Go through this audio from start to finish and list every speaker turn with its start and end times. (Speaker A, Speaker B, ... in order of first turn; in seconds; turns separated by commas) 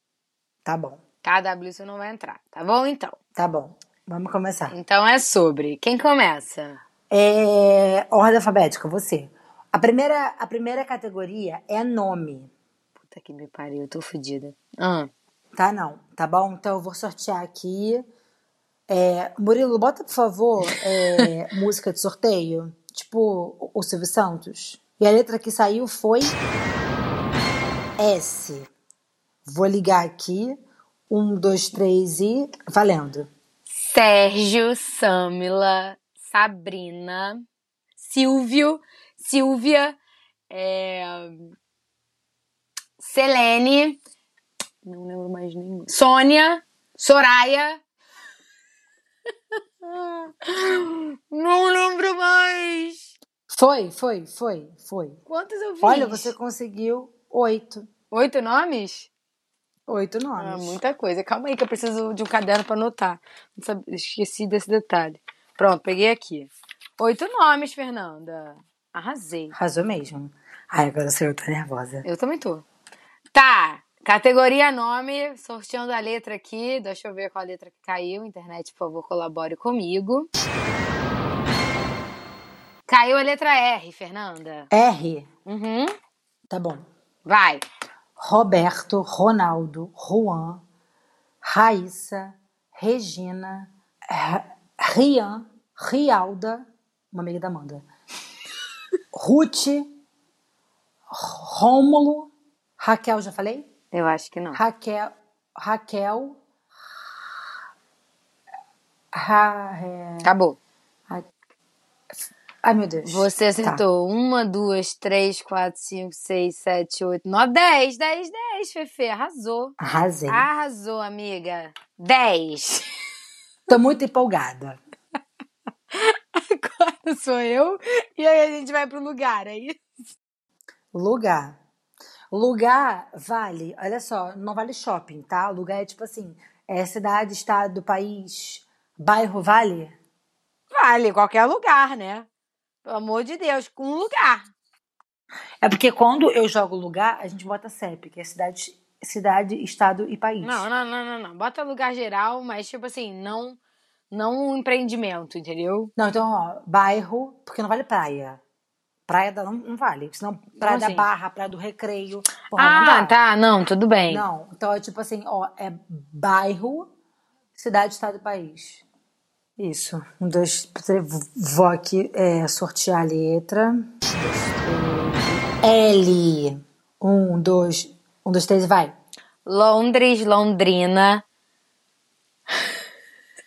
Speaker A: 0.7-1.0, Speaker B: 1.2-3.2, Speaker A: 3.4-4.8, Speaker B: 4.7-6.8, Speaker A: 7.1-12.5, Speaker B: 13.0-15.1, Speaker A: 15.6-18.0, Speaker A: 18.9-26.4, Speaker A: 28.0-28.7, Speaker A: 29.4-30.6, Speaker A: 31.1-33.3, Speaker B: 33.7-37.4, Speaker B: 38.0-40.0, Speaker B: 40.5-41.6, Speaker B: 43.0-44.0, Speaker B: 44.8-47.8, Speaker B: 49.8-53.1, Speaker A: 53.5-55.2, Speaker B: 55.3-56.4, Speaker A: 55.8-57.9, Speaker B: 58.1-59.1, Speaker A: 59.9-60.8, Speaker B: 60.4-69.6, Speaker A: 69.5-72.1, Speaker B: 72.0-72.7, Speaker B: 73.3-80.3, Speaker B: 82.9-84.7, Speaker A: 84.7-85.3, Speaker B: 85.5-85.9, Speaker A: 86.5-86.9, Speaker B: 87.3-87.6, Speaker A: 88.2-90.6, Speaker A: 91.4-97.9, Speaker A: 99.1-99.9, Speaker A: 101.1-103.7, Speaker B: 103.9-104.6, Speaker A: 104.5-106.4, Speaker A: 109.1-110.3, Speaker B: 110.2-110.6, Speaker A: 112.6-113.8, Speaker B: 113.0-119.8, Speaker A: 119.8-120.5, Speaker B: 120.3-122.9, Speaker A: 123.7-124.8, Speaker B: 125.9-129.8, Speaker A: 130.9-131.6, Speaker A: 132.3-139.9, Speaker B: 140.7-142.3, Speaker B: 142.8-144.5, Speaker A: 145.6-150.7, Speaker B: 150.4-153.6, Speaker B: 154.1-155.9, Speaker A: 156.0-158.4, Speaker A: 159.1-163.2, Speaker B: 160.6-161.1, Speaker B: 162.6-164.2, Speaker A: 164.1-166.9, Speaker A: 167.6-168.8, Speaker A: 169.6-178.9, Speaker B: 179.4-181.2